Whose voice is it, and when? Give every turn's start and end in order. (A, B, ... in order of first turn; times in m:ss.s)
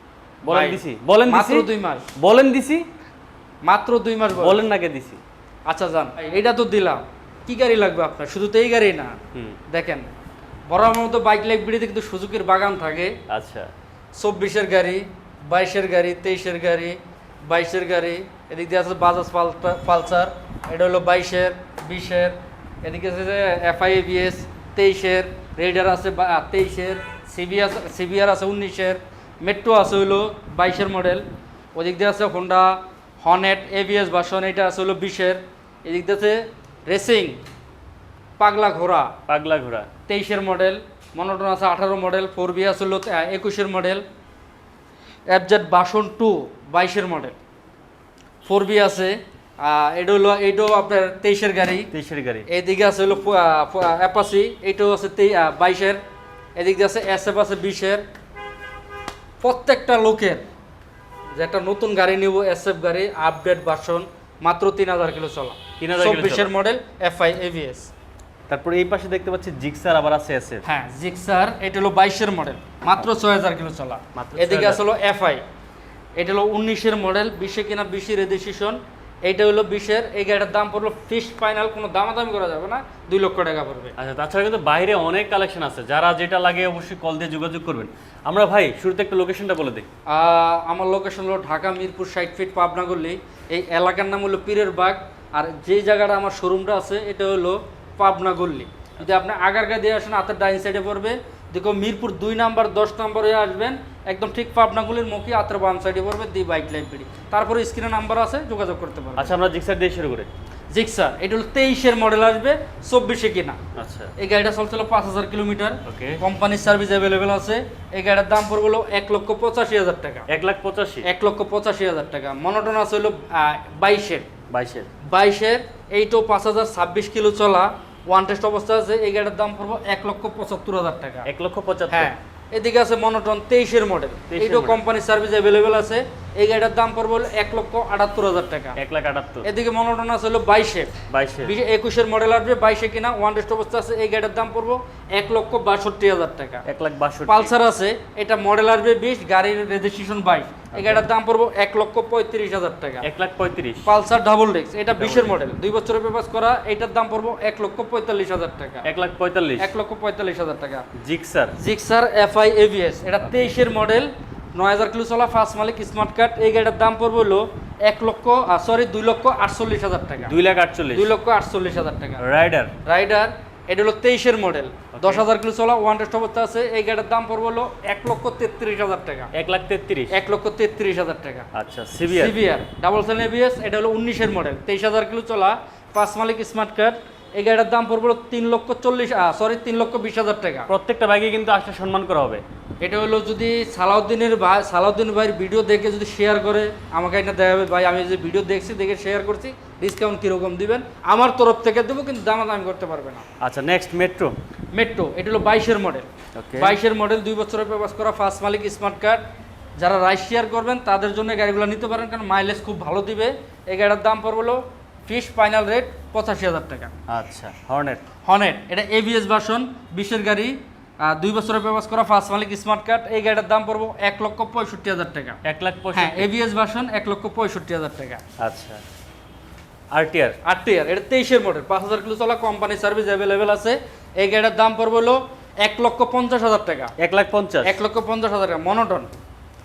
0:00.4-0:02.8 A
0:00.5-0:02.0 B
0:03.6-0:04.6 B
0:04.4-0:05.2 A
0:05.7-0:09.2 B
0:09.7-0:10.1 B
0:10.7-0:13.2 B
0:13.3-0:13.7 A
0:14.2-0:37.4 B
0:38.4-0:39.1 B
0:39.3-0:39.9 A
0:40.1-0:44.0 B
0:45.3-0:47.4 B
0:48.4-0:51.9 B
0:51.9-0:52.5 A
0:52.5-0:56.0 B
0:56.6-0:58.0 B
0:59.4-1:00.4 B
1:01.4-1:07.9 B
1:05.8-1:06.5 A
1:08.5-1:10.6 A
1:10.6-1:15.4 B
1:14.2-1:14.8 A
1:16.2-1:23.9 B
1:24.0-1:29.8 A
1:30.1-1:49.3 B
1:49.2-1:50.3 A
1:50.7-1:53.6 B
1:53.8-1:54.1 A
1:54.2-2:00.3 B
1:55.8-1:56.2 A
2:00.3-2:01.1 A
2:01.0-2:04.3 B
2:04.5-2:04.9 A
2:05.0-2:11.3 B
2:11.2-2:12.1 A
2:11.9-2:18.8 B
2:14.3-2:14.8 A
2:18.8-2:19.5 A
2:19.4-2:20.9 B
2:21.1-2:21.5 A
2:21.4-2:26.6 B
2:26.6-2:27.5 A
2:27.2-2:33.0 B
2:30.7-2:31.0 A
2:33.0-2:33.9 A
2:33.8-2:38.8 B
2:35.0-2:35.3 A
2:38.8-2:39.7 A
2:39.6-2:40.9 B
2:41.0-2:41.5 A
2:41.6-2:50.3 B
2:50.2-2:51.1 A
2:50.9-2:52.2 B
2:52.2-2:52.7 A
2:52.8-2:59.3 B
2:54.9-2:55.2 A
2:59.3-3:00.1 A
3:00.1-3:01.5 B
3:01.5-3:02.4 A
3:02.1-3:10.7 B
3:10.7-3:12.4 A
3:12.8-3:23.2 B
3:23.4-3:24.3 A
3:24.7-3:29.2 B
3:26.4-3:26.7 A
3:29.8-3:36.9 B
3:37.1-3:38.0 A
3:38.2-3:45.4 B
3:45.4-3:46.3 A
3:45.9-3:48.2 B
3:48.4-3:48.8 A
3:49.9-3:50.4 A
3:50.4-3:56.9 B
3:57.0-3:57.7 A
3:57.6-3:59.1 B